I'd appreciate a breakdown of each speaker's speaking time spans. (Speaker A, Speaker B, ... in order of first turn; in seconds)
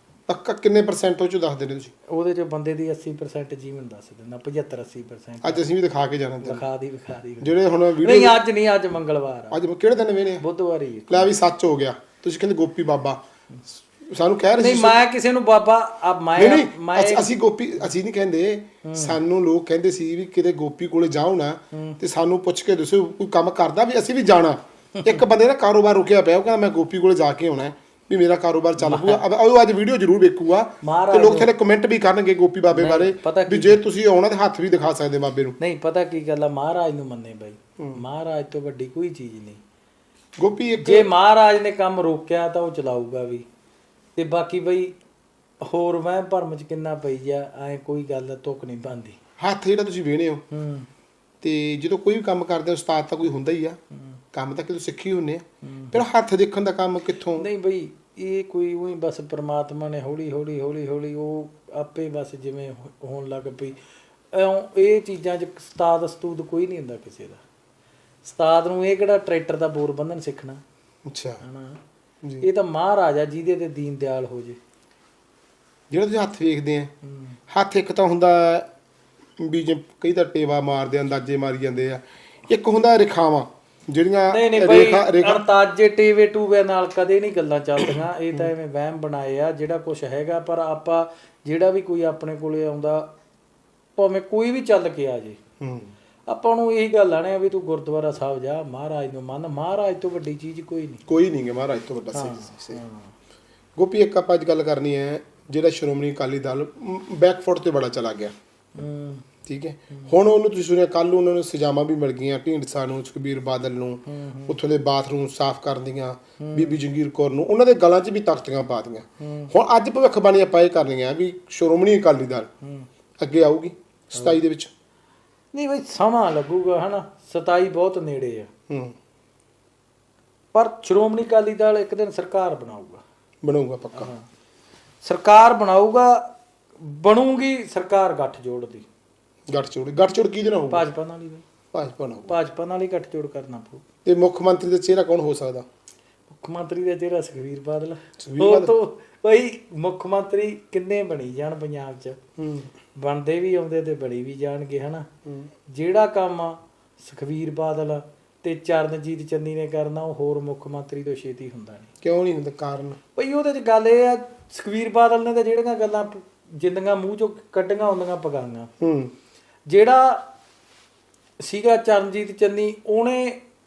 Speaker A: 0.3-1.9, 5.4-6.6, 7.4-8.4, 9.5-10.4, 11.1-15.0, 16.4-35.6, 40.4-41.1, 49.4-50.4, 51.4-53.8, 54.3-57.5, 71.1-71.4, 75.9-76.9, 77.5-78.7, 79.4-85.4, 95.6-95.9, 101.1-102.8, 103.8-108.3, 109.4-122.5, 123.2-124.7, 128.7-128.9, 133.4-134.1, 139.5-140.8, 141.7-142.3, 144.0-145.7, 148.2-148.7, 152.4-152.7, 162.0-163.0, 168.8-169.1
Speaker B: 2.1-5.6, 6.4-9.6, 10.4-11.3, 14.6-17.3, 18.8-19.2, 21.7-22.0, 28.8-29.2, 30.8-31.5, 32.7-33.8, 35.6-39.6, 40.8-43.4, 44.1-45.0, 45.6-49.2, 50.5-50.9, 55.6-56.0, 57.3-63.8, 64.3-67.4, 68.2-70.6, 71.4-71.8, 72.4-74.6, 77.0-77.4, 84.3-93.1, 94.0-95.4, 96.3-101.0, 102.1-103.1, 108.7-109.2, 114.0-114.6, 116.4-116.8, 119.2-119.5, 122.6-122.9, 125.5-128.5, 130.5-133.0, 133.9-134.2, 135.0-138.8, 140.7-141.4, 142.3-143.8, 146.3-152.2, 153.0-155.1, 155.7-161.9, 163.2-168.7, 169.7-170.2, 171.4-173.4